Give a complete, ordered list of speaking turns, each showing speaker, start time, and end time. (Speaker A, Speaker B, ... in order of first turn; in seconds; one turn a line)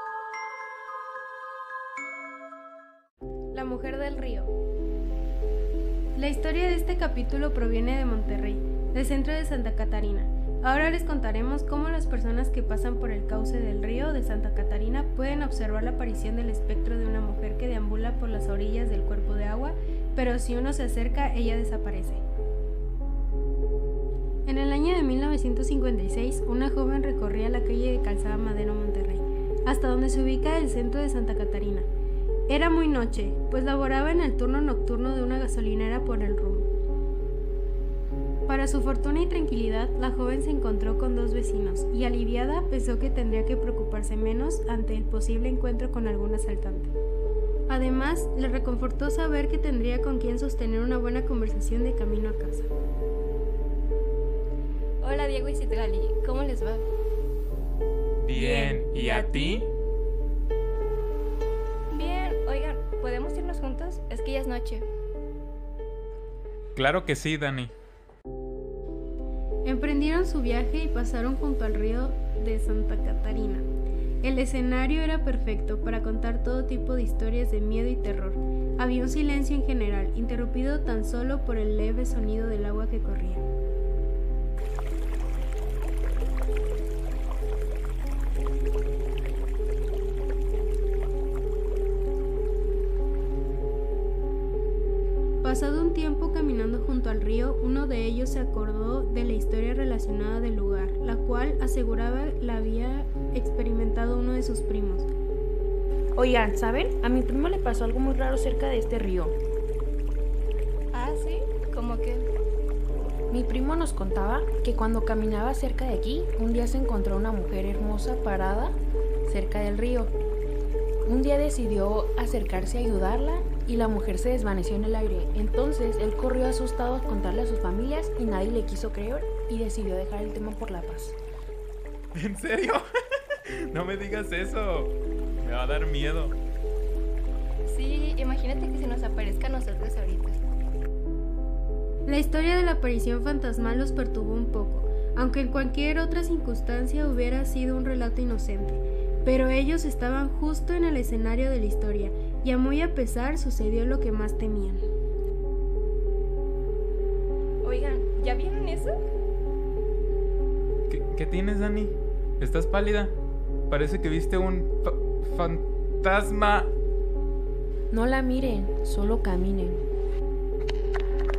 Speaker A: 3.5-4.5
Speaker A: 6.2-22.2
Speaker A: 24.5-31.9
Speaker A: 32.5-36.7
Speaker A: 38.5-46.9
Speaker A: 47.7-52.7
Speaker B: 55.0-56.9
Speaker C: 58.2-59.7
Speaker B: 58.4-59.6
Speaker B: 61.9-64.9
Speaker C: 66.8-67.7
Speaker A: 69.6-73.7
Speaker A: 74.2-83.5
Speaker A: 95.4-105.1
Speaker D: 106.2-109.4
Speaker B: 110.9-112.3
Speaker D: 113.3-120.2
Speaker D: 121.1-131.2
Speaker C: 132.2-132.8
Speaker C: 133.7-136.3
Speaker B: 137.7-140.4
Speaker A: 142.1-154.8
Speaker B: 157.6-159.0
Speaker C: 160.9-163.2
Speaker C: 163.7-166.7
Speaker D: 167.9-169.8